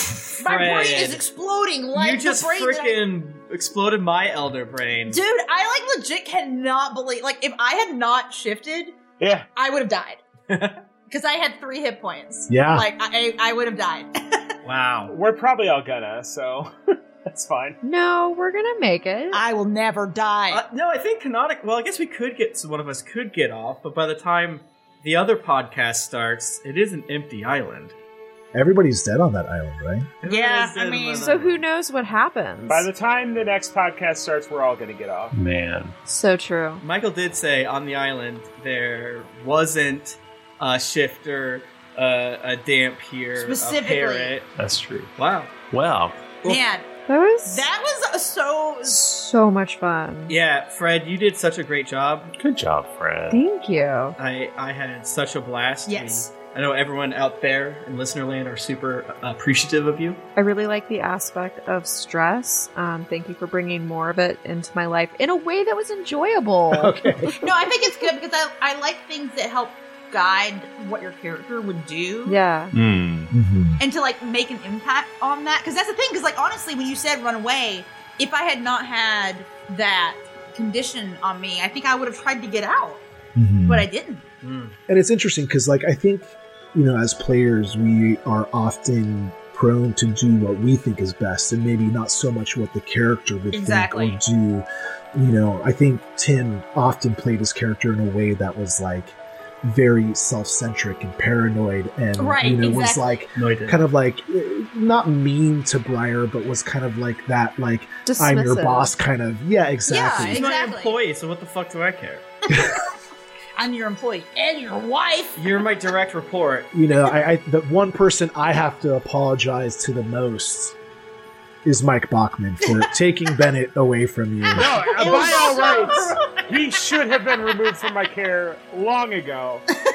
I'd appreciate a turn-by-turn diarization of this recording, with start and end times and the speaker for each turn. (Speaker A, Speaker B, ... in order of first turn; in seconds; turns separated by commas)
Speaker A: 0.4-3.0, Speaker B: 0.4-1.2, Speaker B: 1.9-5.2, Speaker A: 5.1-9.0, Speaker C: 9.2-9.5, Speaker A: 9.6-10.2, Speaker B: 10.5-10.8, Speaker A: 11.1-14.5, Speaker D: 12.5-12.9, Speaker B: 14.6-15.1, Speaker C: 15.1-16.7, Speaker C: 17.3-17.8, Speaker E: 17.8-19.4, Speaker A: 19.3-20.6, Speaker B: 20.5-27.9, Speaker D: 28.5-30.1, Speaker B: 30.2-31.6, Speaker A: 30.2-31.3, Speaker E: 31.2-32.9, Speaker C: 32.7-35.3, Speaker F: 35.3-36.0, Speaker E: 36.1-36.8, Speaker B: 36.8-44.5, Speaker A: 43.4-44.4, Speaker F: 44.6-45.1, Speaker B: 45.2-45.6, Speaker F: 45.7-46.3, Speaker A: 46.4-46.9, Speaker E: 47.1-47.7, Speaker A: 47.5-49.0, Speaker E: 48.9-50.4, Speaker B: 50.3-52.3, Speaker F: 52.4-53.4, Speaker E: 53.3-54.2, Speaker B: 54.2-60.2, Speaker A: 55.9-56.3, Speaker E: 60.4-67.3, Speaker D: 66.7-67.3, Speaker A: 67.4-72.4, Speaker E: 72.3-72.7, Speaker F: 72.7-73.3, Speaker D: 73.3-73.8, Speaker A: 73.8-83.0, Speaker D: 83.4-83.9, Speaker A: 83.7-84.2, Speaker B: 84.4-84.8, Speaker D: 84.9-110.4, Speaker A: 93.5-94.2, Speaker A: 102.2-103.0, Speaker B: 103.3-103.8, Speaker E: 108.1-108.9, Speaker A: 109.9-111.0, Speaker B: 110.2-112.3, Speaker A: 113.6-115.6, Speaker B: 115.4-116.7, Speaker D: 116.7-120.8, Speaker D: 121.6-125.1, Speaker A: 124.5-126.8, Speaker C: 124.5-129.7